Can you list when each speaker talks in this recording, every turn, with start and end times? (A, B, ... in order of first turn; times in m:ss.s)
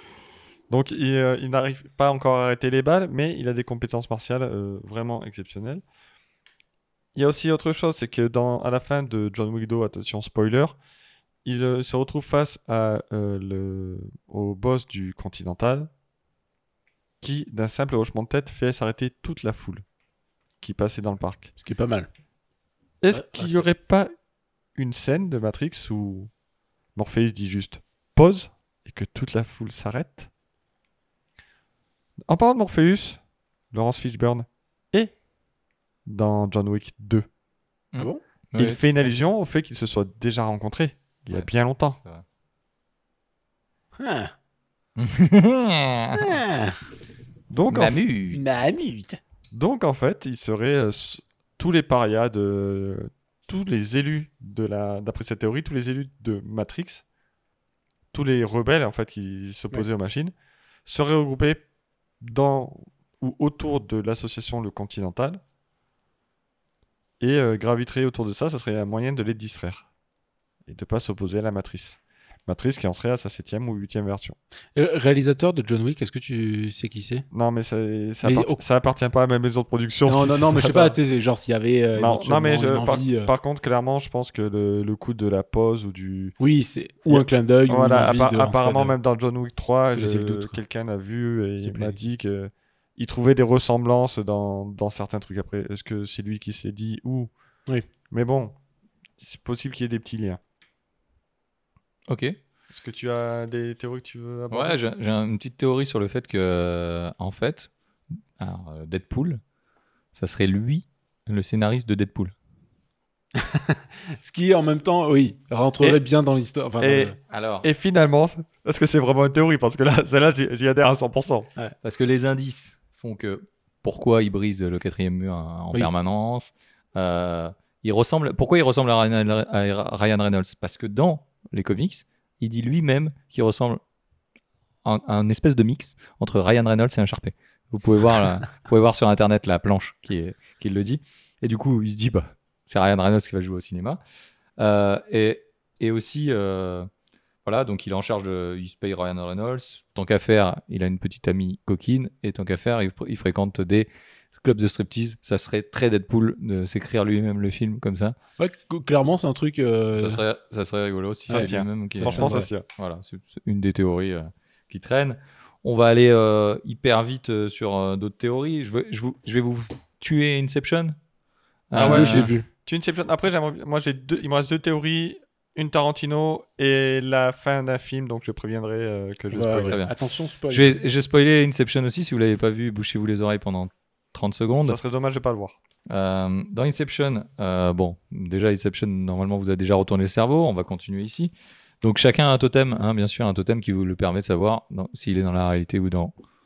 0:00.7-0:05.8 A
0:07.2-0:10.8 A
0:11.4-0:15.9 A
0:17.2-0:19.8 A
0:20.6-0:21.5 A
0:21.6-0:22.1 B
0:23.0-0:24.1 A
0:23.3-0:23.6 C
0:24.8-0:26.3 A
0:27.0-0:30.3 A
0:32.3-0:33.2 A
0:33.7-0:35.1 A
0:36.1-0:37.3 A
0:37.9-0:38.8 C
0:38.6-0:42.0 A
0:44.0-0:44.3 B
0:45.0-0:46.4 C
0:46.1-0:46.8 B
0:47.5-0:48.0 A
0:47.7-0:48.4 C
0:48.3-0:49.2 B
0:49.5-0:57.0 A
0:58.1-1:00.3 A
1:00.9-1:01.6 A
1:02.2-1:05.4 A
1:07.2-1:09.9 A
1:10.7-1:14.4 A
1:14.8-1:17.3 B
1:17.3-1:21.0 A
1:18.2-1:18.6 B
1:20.0-1:23.3 B
1:22.0-1:26.4 A
1:26.4-1:29.0 B
1:27.1-1:37.3 A
1:30.0-1:30.6 B
1:31.6-1:32.0 B
1:38.1-1:38.6 A
1:39.2-1:40.4 A
1:42.1-1:42.4 C
1:42.7-1:44.8 A
1:44.5-1:47.7 C
1:48.4-1:49.4 C
1:50.1-1:52.3 C
1:53.4-1:57.2 B
1:56.8-2:01.5 A
1:57.3-1:57.7 C
2:01.8-2:13.8 C
2:14.8-2:24.0 C
2:24.6-2:26.9 C
2:27.4-2:38.2 C
2:38.4-2:40.2 B
2:39.9-2:51.0 C
2:41.3-2:42.5 B
2:41.3-2:42.7 A
2:51.7-2:52.3 C
2:51.7-2:52.5 B
2:51.8-2:59.8 A
2:59.3-3:00.8 B
2:59.6-2:59.9 C
3:00.5-3:04.8 C
3:04.6-3:05.6 A
3:05.9-3:16.1 C